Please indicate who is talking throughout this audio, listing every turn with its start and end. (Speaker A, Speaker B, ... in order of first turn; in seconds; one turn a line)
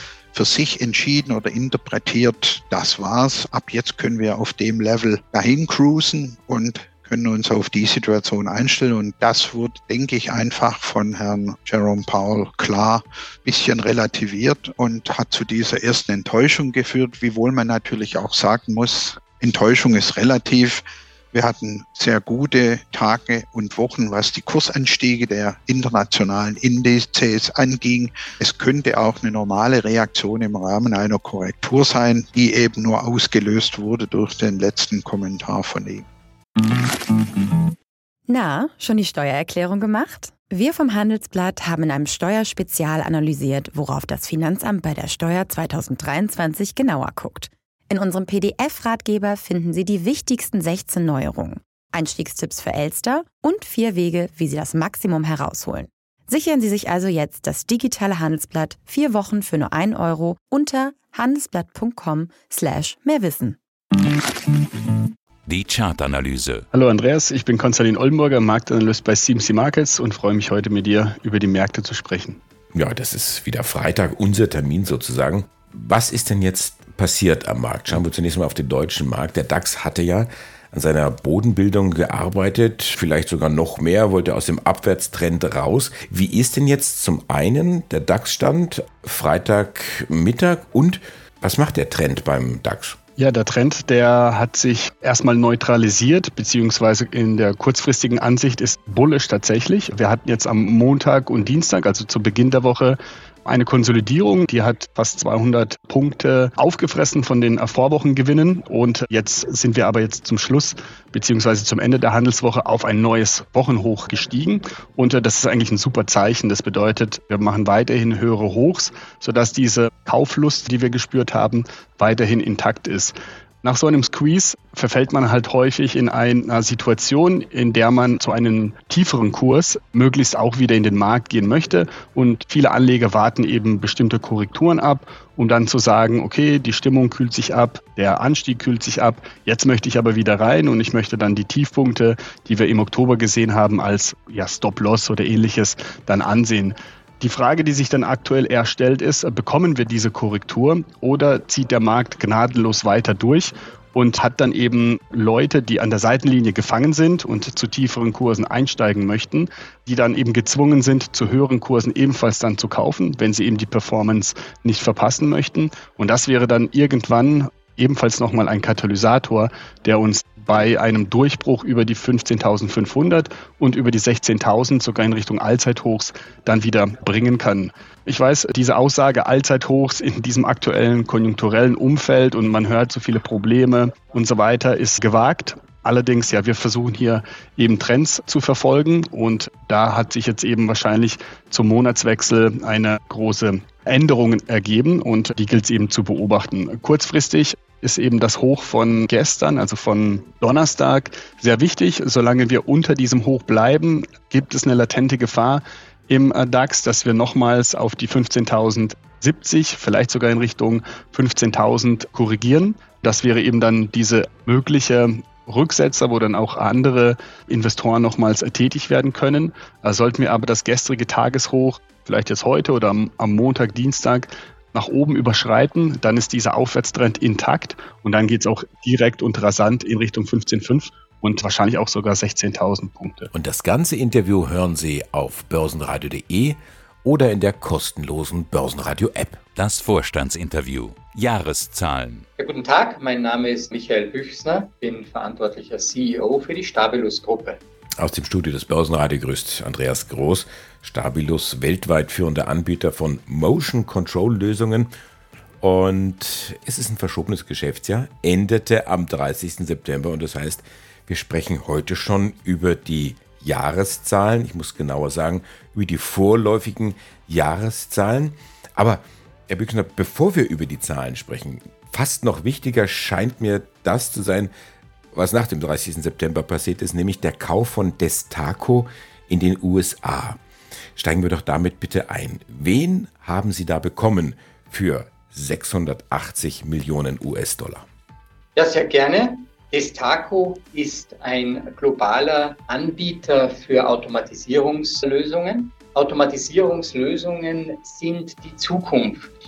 Speaker A: 0.3-36.0
Speaker B: 38.3-63.6
Speaker C: 65.5-66.6
Speaker D: 66.7-72.4
Speaker E: 72.7-93.0
Speaker D: 93.2-233.3
Speaker E: 233.3-239.4
Speaker C: 239.6-242.2
Speaker F: 242.4-247.6
Speaker E: 248.0-254.9
Speaker E: 255.6-274.5
Speaker E: 275.1-280.4
Speaker E: 280.9-287.9
Speaker F: 288.6-299.3